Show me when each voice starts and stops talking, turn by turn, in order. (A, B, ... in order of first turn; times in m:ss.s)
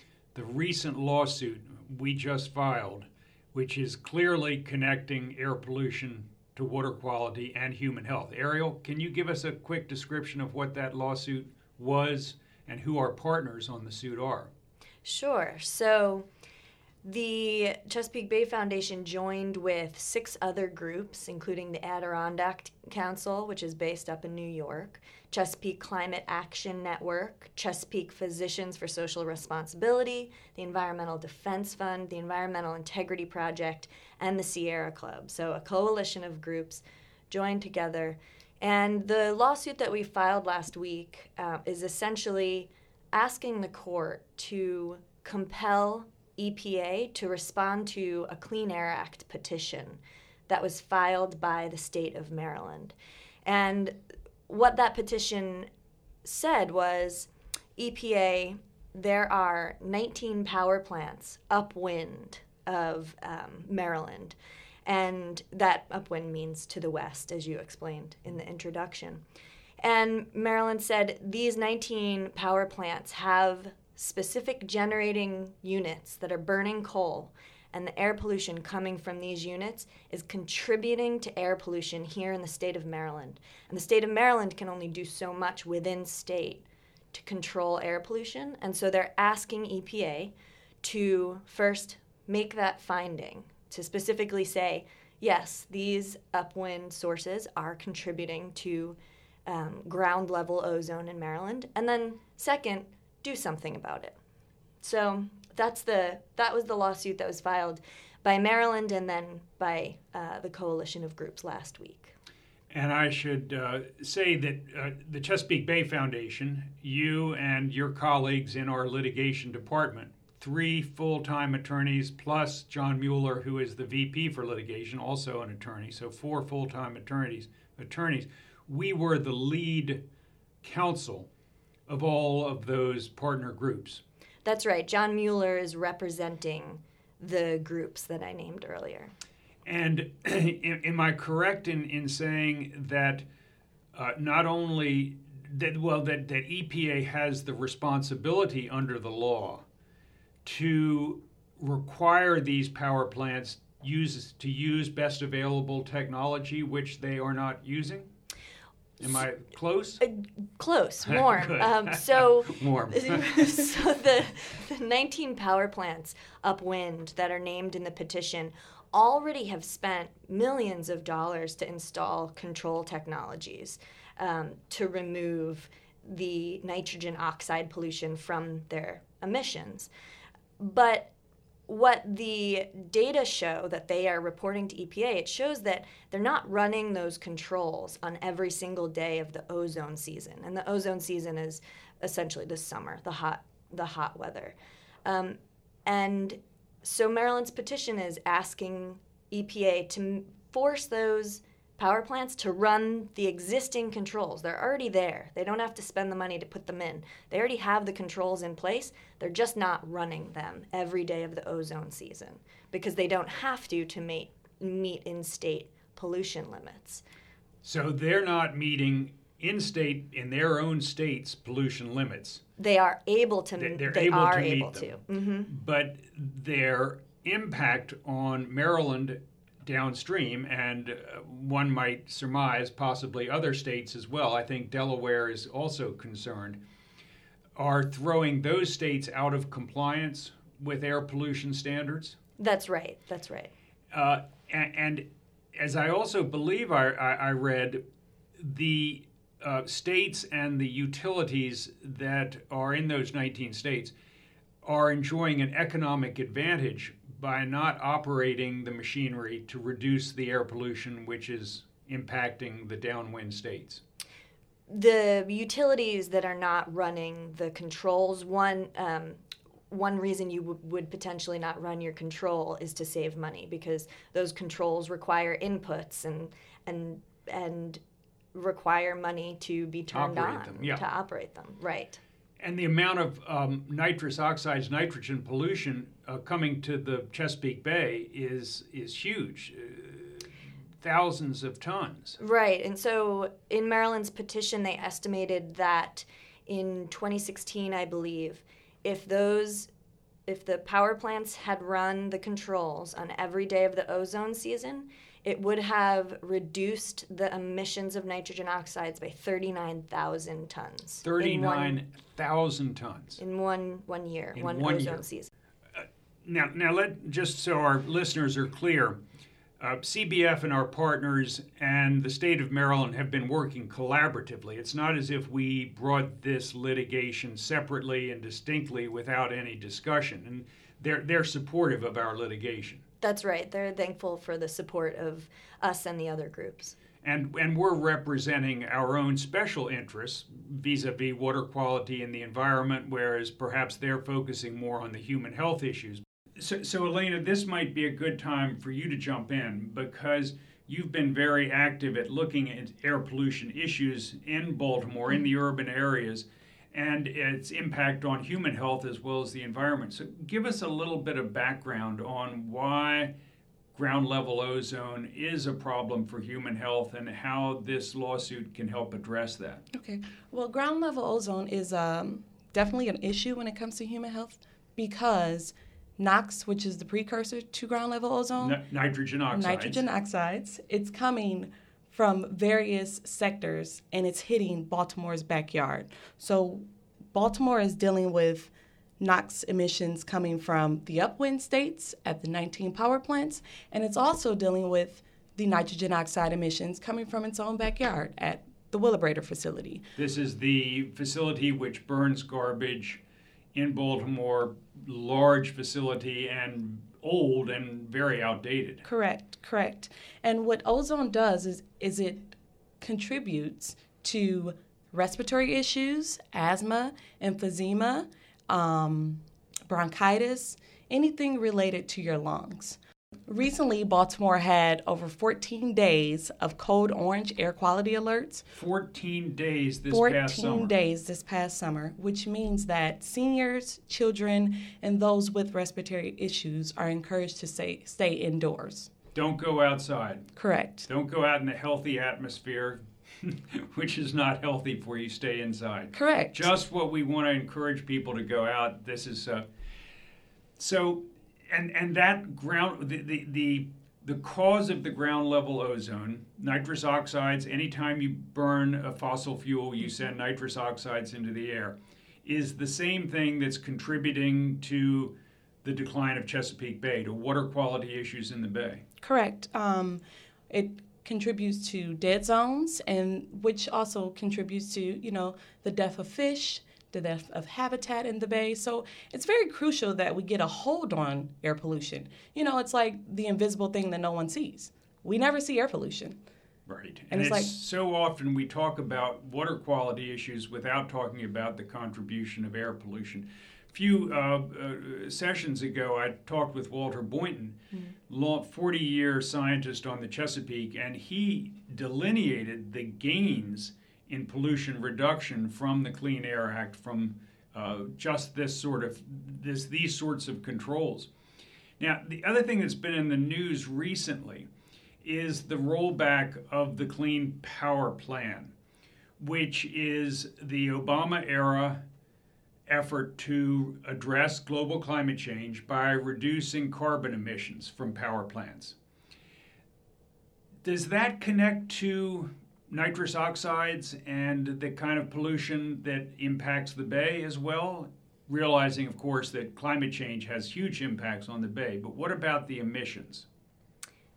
0:00.3-0:14.5 A
0:15.0-0:16.3 B
0:17.0-0:54.0 B
0:54.5-0:55.7 B
0:56.2-1:09.2 B
1:09.8-1:44.2 B
1:44.8-1:52.1 B
1:52.7-2:10.0 A
2:10.6-2:11.3 A
2:11.9-2:14.0 A
2:14.4-2:19.1 B
2:19.6-2:23.2 A
2:23.9-2:29.6 A
2:30.4-2:38.1 A
2:39.0-2:40.0 A
2:40.0-2:59.9 B
2:41.2-2:43.3 A
3:00.6-3:01.1 B
3:01.7-3:37.0 B
3:37.6-3:42.4 A
3:42.6-3:45.5 B
3:43.6-3:44.9 A
3:45.5-3:56.6 A
3:57.6-4:02.2 A
4:02.4-4:03.5 B
4:03.9-4:05.0 A
4:05.6-4:07.8 A
4:08.4-4:13.9 A
4:14.6-4:23.8 A
4:24.7-4:37.8 B
4:38.3-4:42.0 B
4:39.9-4:40.8 A
4:42.4-4:52.2 A
4:52.2-4:59.7 B
5:00.3-5:11.8 B
5:11.0-5:13.2 A
5:13.2-5:15.3 B
5:14.3-5:15.0 A
5:15.7-5:19.0 A
5:19.6-5:32.8 A
5:33.0-5:36.8 B
5:37.0-6:03.1 A
6:03.7-6:09.6 A
6:09.7-6:18.6 C
6:18.4-6:19.8 A
6:19.3-6:39.9 C
6:40.0-6:43.0 A
6:43.5-6:48.8 A
6:48.8-7:08.4 C
7:08.5-7:10.7 A
7:09.9-7:18.9 C
7:19.1-7:20.3 A
7:20.4-7:20.9 C
7:20.8-7:29.4 A
7:25.9-7:26.5 C
7:30.6-7:48.8 A
7:49.0-8:06.2 C
8:06.7-8:17.6 A
8:07.1-8:07.5 C
8:18.1-8:31.1 A
8:31.8-8:34.5 A
8:35.0-8:38.5 A
8:39.2-8:41.8 A
8:42.7-8:48.8 A
8:50.6-9:03.3 A